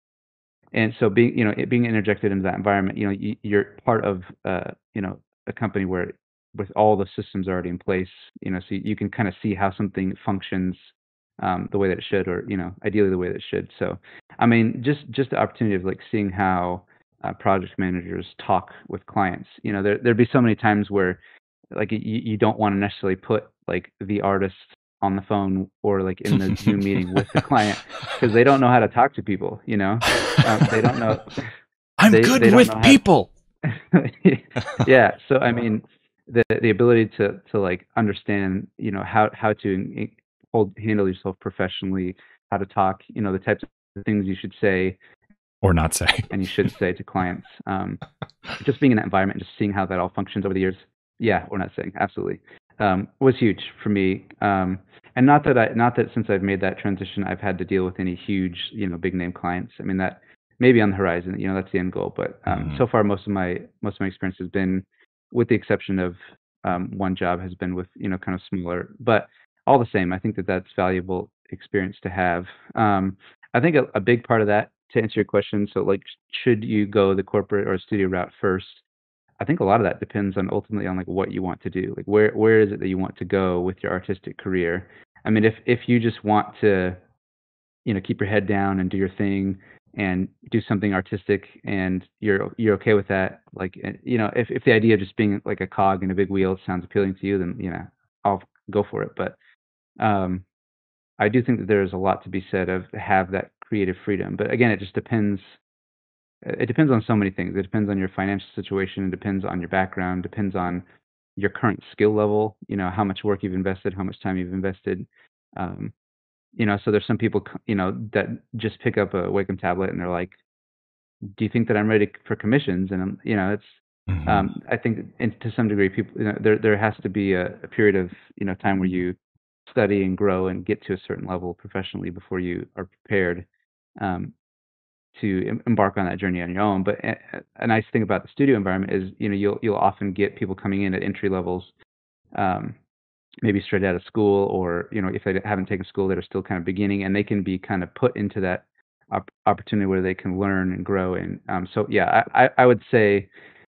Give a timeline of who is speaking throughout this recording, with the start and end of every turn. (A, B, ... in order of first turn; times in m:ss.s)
0:00.7-0:21.2 A
0:21.7-0:31.5 A
0:26.3-0:27.4 B
0:32.0-0:33.3 B
0:32.1-0:33.0 A
0:33.7-0:45.0 A
0:45.6-0:46.3 B
0:46.3-0:48.0 A
0:48.6-1:18.8 A
1:02.5-1:02.8 B
1:19.4-1:27.0 A
1:27.9-1:39.4 A
1:40.0-1:40.4 A
1:41.2-1:45.6 A
1:46.4-1:50.8 A
1:51.4-1:55.9 A
1:56.6-2:00.4 A
2:01.4-2:09.2 A
2:04.1-2:04.5 B
2:09.7-2:13.5 A
2:14.0-2:14.4 A
2:15.1-2:21.7 A
2:22.4-2:22.8 A
2:23.4-2:33.3 A